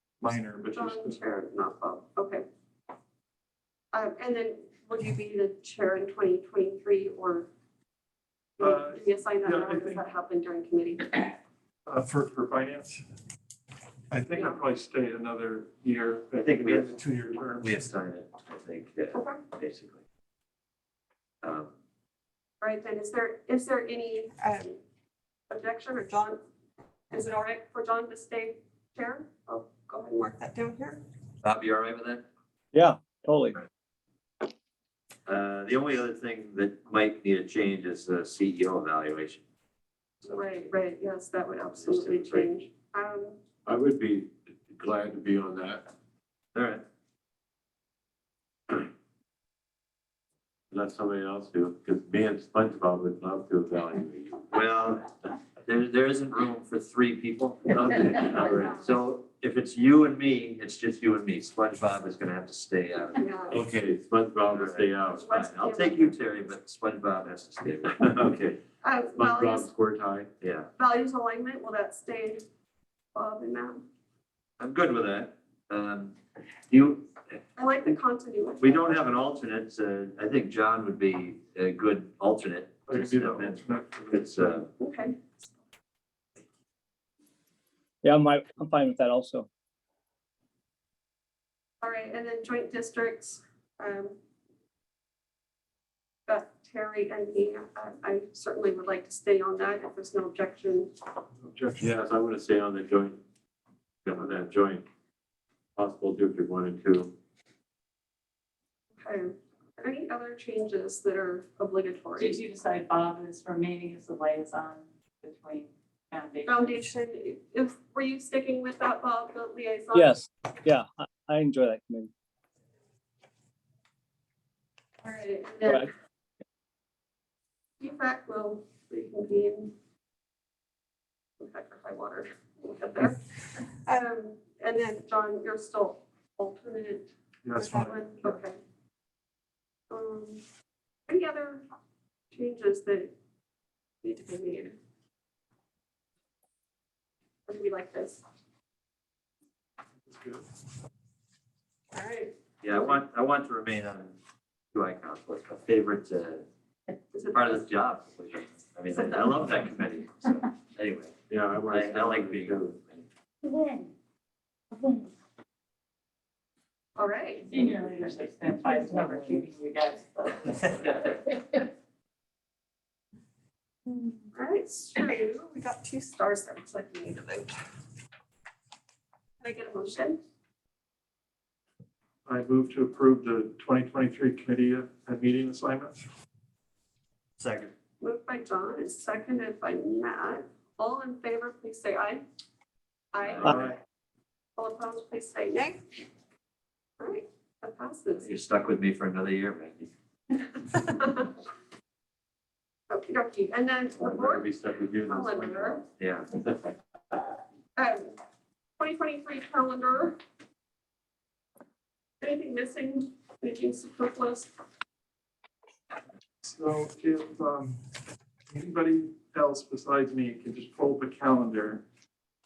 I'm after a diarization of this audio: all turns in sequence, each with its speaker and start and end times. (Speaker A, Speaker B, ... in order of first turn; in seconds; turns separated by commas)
Speaker A: 0.2-1.2, Speaker B: 0.7-2.4, Speaker B: 3.9-7.5, Speaker B: 8.6-11.2, Speaker A: 8.6-10.0, Speaker A: 11.8-13.0, Speaker A: 14.1-17.8, Speaker C: 16.4-16.9, Speaker C: 17.6-20.0, Speaker B: 19.1-19.4, Speaker C: 21.4-21.7, Speaker B: 22.6-24.8, Speaker B: 25.5-26.4, Speaker B: 27.1-31.0, Speaker C: 31.4-32.2, Speaker D: 32.7-33.6, Speaker C: 35.3-39.4, Speaker B: 40.2-43.4, Speaker C: 41.8-42.5, Speaker E: 43.6-45.9, Speaker C: 46.5-46.8, Speaker E: 50.7-54.4, Speaker C: 54.5-63.6, Speaker B: 58.5-58.8, Speaker B: 63.2-63.6, Speaker E: 63.5-65.2, Speaker C: 64.4-68.3, Speaker B: 65.1-66.1, Speaker E: 68.0-68.6, Speaker B: 68.8-69.7, Speaker E: 69.2-70.3, Speaker C: 70.4-70.7, Speaker B: 70.8-72.4, Speaker B: 73.1-73.8, Speaker C: 74.6-76.2, Speaker C: 76.7-77.1, Speaker B: 77.6-79.0, Speaker C: 78.6-84.7, Speaker A: 82.9-84.6, Speaker B: 84.8-85.5, Speaker D: 88.0-89.5, Speaker B: 91.8-94.2, Speaker B: 96.3-100.9, Speaker A: 101.4-101.9, Speaker E: 101.8-103.2, Speaker E: 104.0-104.8, Speaker E: 105.8-107.1, Speaker B: 109.0-112.4, Speaker F: 112.2-116.8, Speaker B: 116.5-120.2, Speaker D: 119.9-122.1, Speaker B: 125.0-125.9, Speaker D: 125.6-125.9, Speaker B: 127.8-129.7, Speaker B: 131.4-138.6, Speaker A: 137.4-138.0, Speaker B: 139.9-140.4, Speaker B: 141.1-141.6, Speaker B: 142.3-143.1, Speaker B: 144.0-144.8, Speaker B: 147.5-148.2, Speaker A: 150.1-150.4, Speaker B: 151.9-153.0, Speaker C: 152.6-154.2, Speaker C: 154.7-156.4, Speaker B: 157.1-157.6, Speaker C: 157.3-161.1, Speaker B: 158.9-159.5, Speaker E: 161.3-162.7, Speaker C: 161.7-163.0, Speaker F: 163.4-163.8, Speaker B: 166.9-167.5, Speaker F: 167.5-171.6, Speaker B: 174.3-177.5, Speaker B: 179.4-180.2, Speaker A: 182.2-186.0, Speaker C: 187.4-187.7, Speaker B: 188.0-192.2, Speaker B: 193.1-193.6, Speaker C: 193.2-193.6, Speaker A: 193.4-193.8, Speaker B: 194.6-195.8, Speaker B: 197.0-198.3, Speaker C: 198.2-199.9, Speaker B: 200.6-201.3, Speaker B: 202.9-204.5, Speaker E: 204.0-205.8, Speaker B: 205.0-205.8, Speaker C: 206.0-206.5, Speaker B: 207.8-208.2, Speaker B: 208.8-210.2, Speaker B: 212.2-214.5, Speaker A: 216.4-217.8, Speaker A: 218.5-221.8